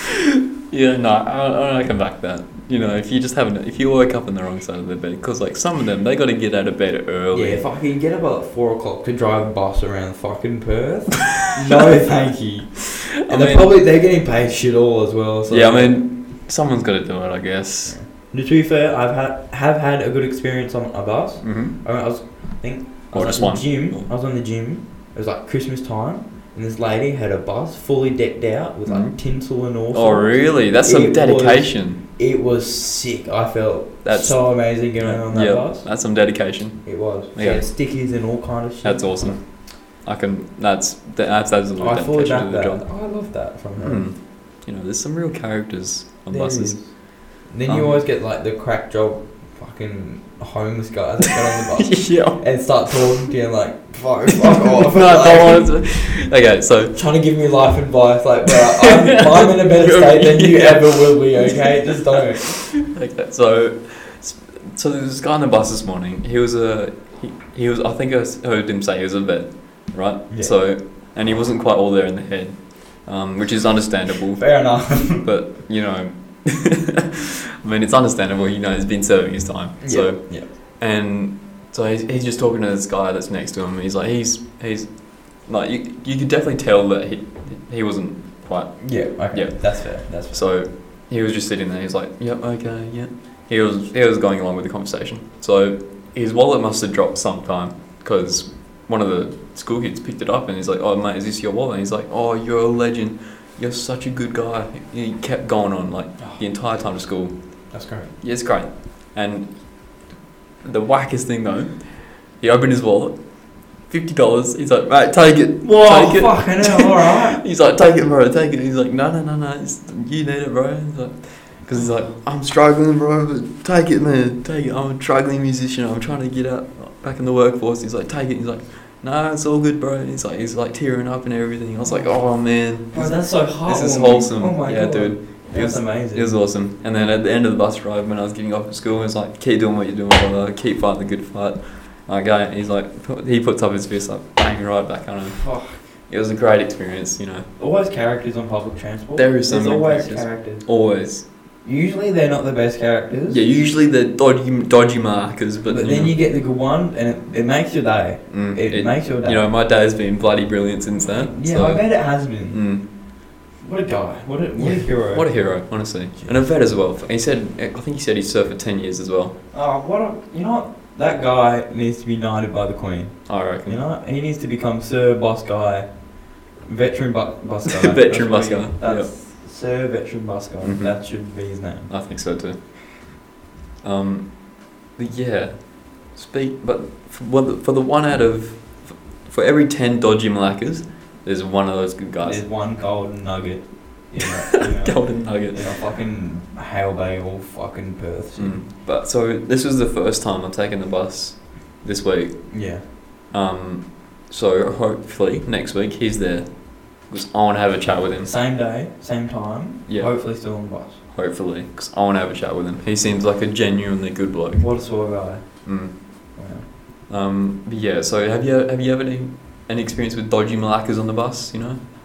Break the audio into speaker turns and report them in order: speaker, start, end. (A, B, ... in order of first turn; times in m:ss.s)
0:00.7-0:07.6 A
0:07.3-0:16.1 B
0:13.3-0:13.7 A
0:15.5-0:18.0 A
0:17.8-0:39.4 B
0:21.4-0:21.8 A
0:23.1-0:24.1 A
0:28.8-0:32.0 A
0:34.0-0:37.7 A
0:38.8-0:42.9 A
0:41.8-0:44.1 B
0:43.8-0:47.1 A
0:46.3-0:55.9 B
0:47.6-0:48.0 A
0:51.8-0:52.9 A
0:54.8-0:57.0 A
0:56.9-1:02.7 B
0:58.8-1:01.6 A
1:02.2-1:16.9 A
1:10.3-1:10.7 B
1:14.4-1:15.4 B
1:17.6-1:50.1 A
1:19.8-1:20.5 B
1:28.8-1:30.6 B
1:46.2-1:46.5 B
1:47.7-1:48.1 B
1:50.6-2:27.5 A
1:55.6-1:57.4 B
2:11.8-2:17.2 B
2:25.2-2:25.9 B
2:27.6-2:33.5 B
2:29.1-2:31.2 A
2:33.3-2:36.2 A
2:35.6-2:39.5 B
2:38.3-2:42.8 A
2:41.0-2:43.0 B
2:43.5-2:46.8 B
2:44.6-2:49.4 A
2:49.5-3:02.4 B
2:53.3-2:53.8 A
2:57.7-2:59.1 A
3:00.6-3:02.8 A
3:03.8-3:12.5 A
3:12.2-3:18.6 B
3:14.7-3:15.7 A
3:18.3-3:22.8 A
3:22.5-3:22.8 B
3:23.3-3:28.3 A
3:27.8-3:31.0 B
3:29.9-3:34.8 A
3:34.6-3:35.8 B
3:35.6-3:36.4 A
3:36.4-3:36.7 B
3:37.1-3:41.8 A